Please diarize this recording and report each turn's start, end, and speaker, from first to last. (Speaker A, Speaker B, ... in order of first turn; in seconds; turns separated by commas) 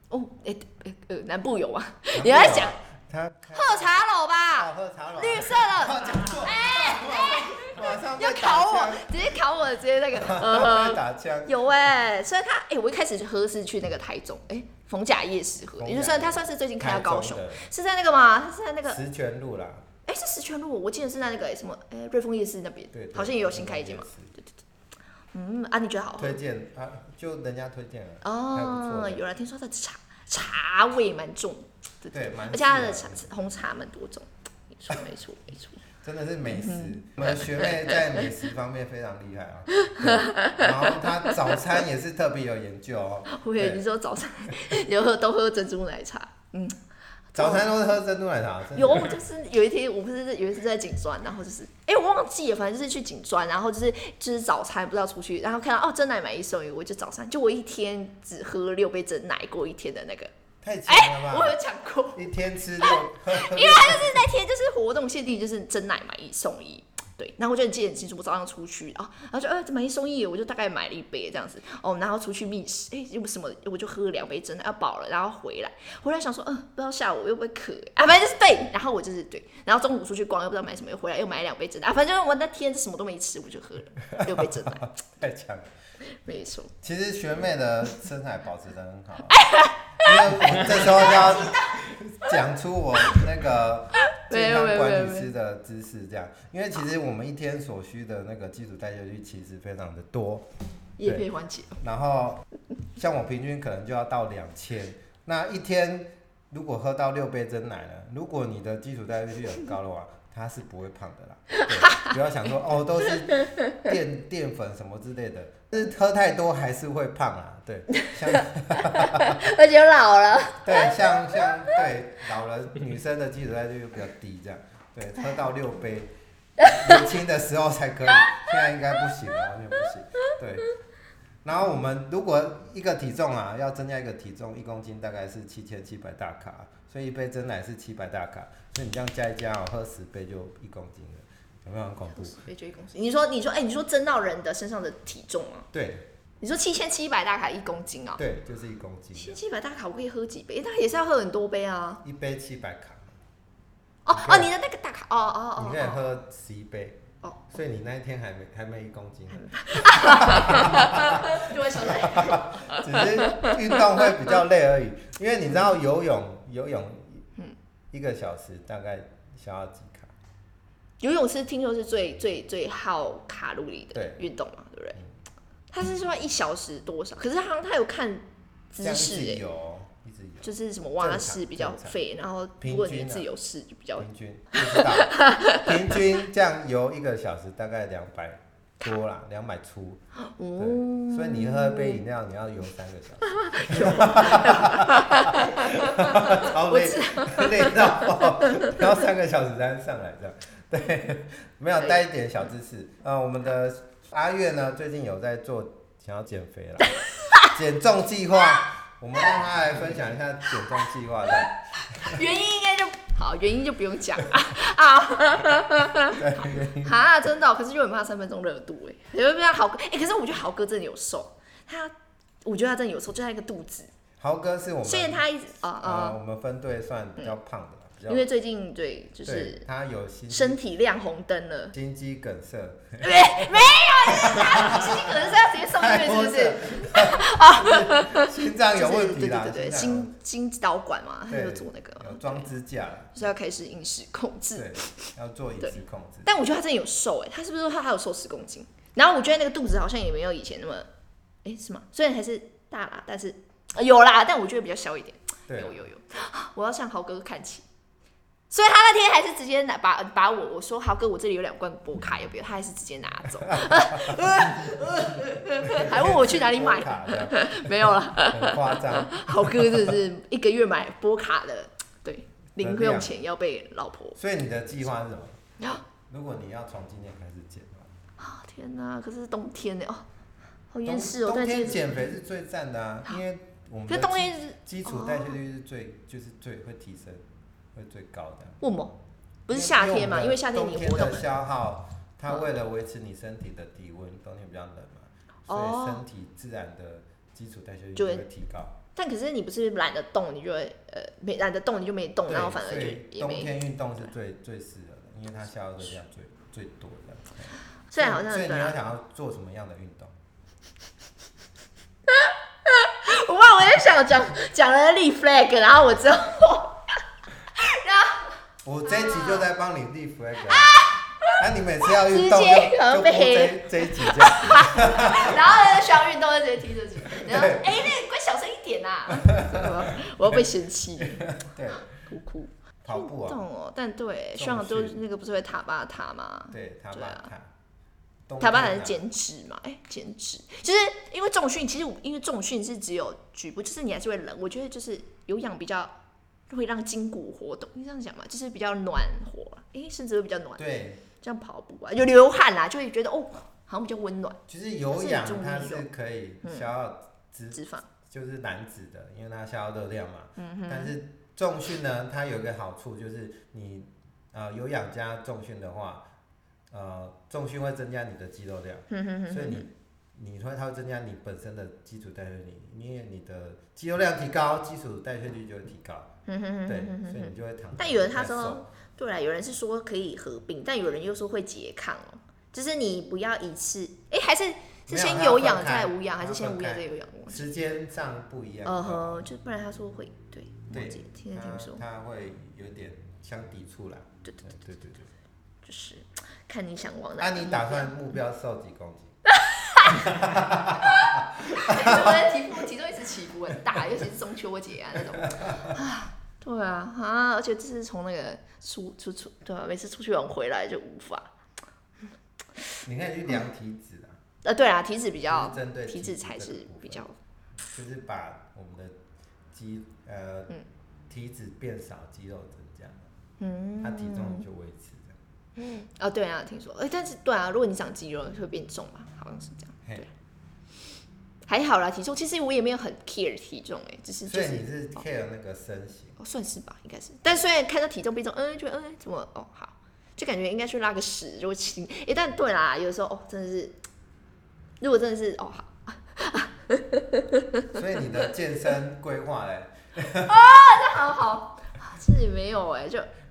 Speaker A: 0.1-2.8, Speaker B: 2.1-4.0, Speaker A: 3.5-19.0, Speaker B: 4.5-9.2, Speaker B: 10.1-11.5, Speaker B: 15.8-17.7, Speaker B: 18.9-19.8, Speaker A: 20.1-24.5, Speaker B: 22.9-24.3, Speaker A: 25.3-26.4, Speaker B: 26.2-29.2, Speaker A: 28.2-35.8, Speaker B: 32.1-33.3, Speaker B: 36.0-43.8, Speaker A: 36.5-38.1, Speaker A: 39.8-41.4, Speaker A: 43.3-46.8, Speaker A: 47.3-47.7, Speaker B: 47.3-49.2, Speaker A: 48.7-60.3, Speaker B: 60.6-61.5, Speaker A: 60.9-85.0, Speaker B: 62.1-64.3, Speaker B: 84.1-85.7, Speaker A: 86.1-86.7, Speaker B: 86.8-89.4, Speaker A: 89.3-91.8, Speaker B: 90.0-100.5, Speaker A: 94.1-95.3, Speaker A: 101.0-101.8, Speaker B: 101.8-102.4, Speaker B: 103.0-119.4, Speaker A: 111.5-112.1, Speaker A: 113.3-113.8, Speaker A: 118.8-121.8, Speaker B: 120.6-130.7, Speaker A: 128.2-128.5, Speaker B: 131.4-142.4, Speaker A: 142.1-145.7, Speaker B: 145.7-146.1, Speaker A: 146.4-148.2, Speaker B: 148.2-149.4, Speaker A: 149.1-152.0, Speaker B: 152.0-153.2, Speaker A: 154.0-156.0, Speaker B: 154.1-154.5, Speaker B: 155.6-167.2, Speaker A: 159.3-164.4, Speaker B: 167.9-170.1, Speaker A: 171.0-175.0, Speaker B: 173.9-174.2, Speaker A: 175.7-179.4, Speaker B: 178.8-182.0, Speaker A: 180.4-185.9, Speaker B: 182.6-183.3, Speaker B: 184.0-190.0, Speaker A: 190.2-192.0, Speaker B: 190.6-212.2, Speaker A: 193.3-198.7, Speaker A: 206.9-207.5, Speaker A: 211.9-216.2, Speaker B: 216.0-217.0, Speaker A: 216.8-223.9, Speaker B: 224.2-225.2, Speaker A: 224.8-226.2, Speaker B: 225.8-228.2, Speaker A: 228.1-229.6, Speaker B: 229.2-230.6, Speaker A: 230.3-231.7, Speaker B: 231.7-240.2, Speaker A: 233.0-242.5, Speaker B: 241.3-243.3, Speaker A: 243.1-245.1, Speaker B: 244.5-246.3, Speaker A: 245.6-250.9, Speaker A: 251.4-257.6, Speaker B: 255.5-255.8, Speaker A: 258.5-274.2, Speaker B: 263.6-264.2, Speaker B: 265.6-270.0, Speaker B: 272.6-273.1, Speaker B: 274.2-275.4, Speaker A: 275.6-275.8, Speaker B: 276.1-277.9, Speaker A: 278.2-280.0, Speaker A: 280.7-281.9, Speaker B: 280.8-288.6, Speaker A: 283.9-285.4, Speaker A: 288.6-291.3, Speaker B: 289.5-298.8, Speaker A: 295.5-296.0, Speaker A: 297.9-298.3, Speaker A: 298.9-304.1, Speaker B: 302.2-310.1, Speaker A: 307.9-308.8, Speaker A: 312.1-317.0, Speaker A: 317.5-319.5, Speaker B: 318.6-320.8, Speaker A: 320.5-331.3, Speaker B: 321.3-325.4, Speaker B: 327.1-327.9, Speaker B: 329.1-330.4, Speaker B: 331.0-331.9, Speaker A: 331.9-337.3, Speaker B: 332.8-333.4, Speaker B: 334.3-335.0, Speaker B: 336.5-337.5, Speaker B: 338.3-339.0, Speaker A: 338.4-345.9, Speaker A: 346.5-354.4, Speaker B: 350.6-351.0, Speaker B: 354.5-366.0, Speaker A: 354.9-355.9, Speaker A: 356.4-356.7, Speaker A: 357.5-357.9, Speaker A: 360.4-361.0, Speaker B: 366.7-376.1, Speaker A: 368.9-369.7, Speaker A: 376.2-387.5, Speaker B: 376.6-378.7, Speaker B: 384.9-389.3, Speaker A: 388.6-391.8, Speaker B: 390.7-395.1, Speaker A: 394.2-394.6, Speaker A: 395.6-397.9, Speaker B: 397.2-399.1, Speaker A: 399.3-400.1, Speaker B: 400.0-402.3, Speaker A: 400.7-411.3, Speaker B: 405.2-405.7, Speaker B: 412.8-414.2, Speaker A: 414.4-417.2, Speaker B: 415.2-417.0, Speaker B: 417.7-418.9, Speaker B: 419.5-420.5, Speaker B: 421.1-423.1, Speaker A: 423.4-424.4, Speaker B: 423.8-425.2, Speaker A: 425.6-430.1, Speaker A: 431.5-435.0, Speaker B: 434.3-436.1, Speaker A: 436.2-443.8, Speaker A: 444.8-447.7, Speaker B: 447.7-450.4, Speaker A: 450.2-453.1